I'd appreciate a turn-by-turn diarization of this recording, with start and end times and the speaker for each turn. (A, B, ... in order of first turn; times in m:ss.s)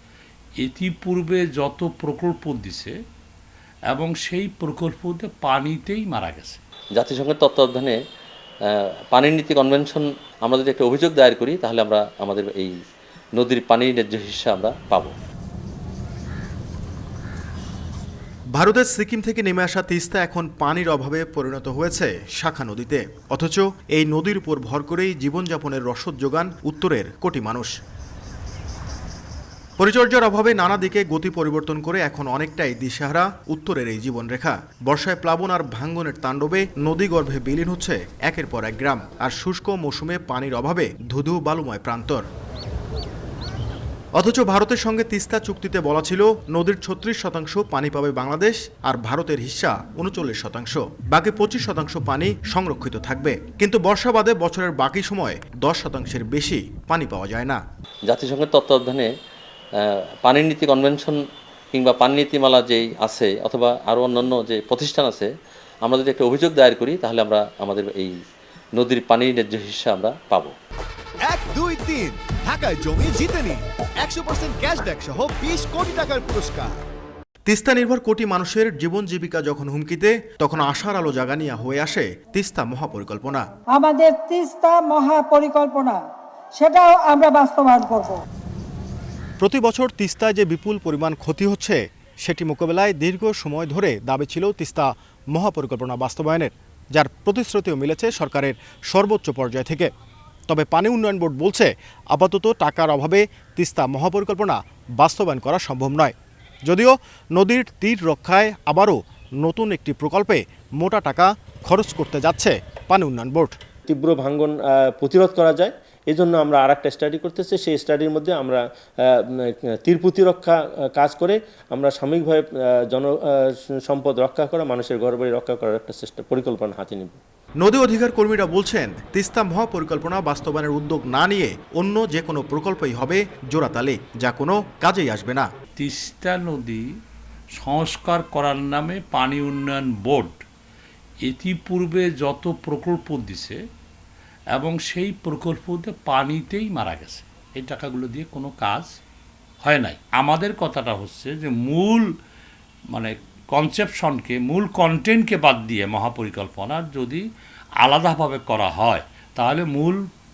0:00.6-0:02.9 A
0:03.9-0:06.6 A
0:07.0-0:08.0 B
0:08.7-0:12.7 B
0:13.4-0:15.1 B
0:18.5-0:27.7 C
0:29.8-0:42.2 C
0:44.2-0:57.6 C
0:58.1-0:59.1 B
0:59.8-1:01.2 B
1:01.7-1:05.3 B
1:05.8-1:08.1 B
1:08.8-1:10.5 B
1:11.2-1:16.8 D
1:17.5-1:23.4 C
1:23.7-1:26.0 E
1:26.6-1:28.2 E
1:29.4-1:39.9 C
1:40.5-1:46.1 C
1:46.7-1:53.6 C
1:53.9-2:07.2 F
2:07.6-2:15.5 C
2:15.8-2:16.8 A
2:17.6-2:20.3 A
2:21.2-2:23.6 A
2:24.5-2:28.9 A
2:29.6-2:32.0 A
2:32.9-2:37.2 A
2:37.8-2:40.0 A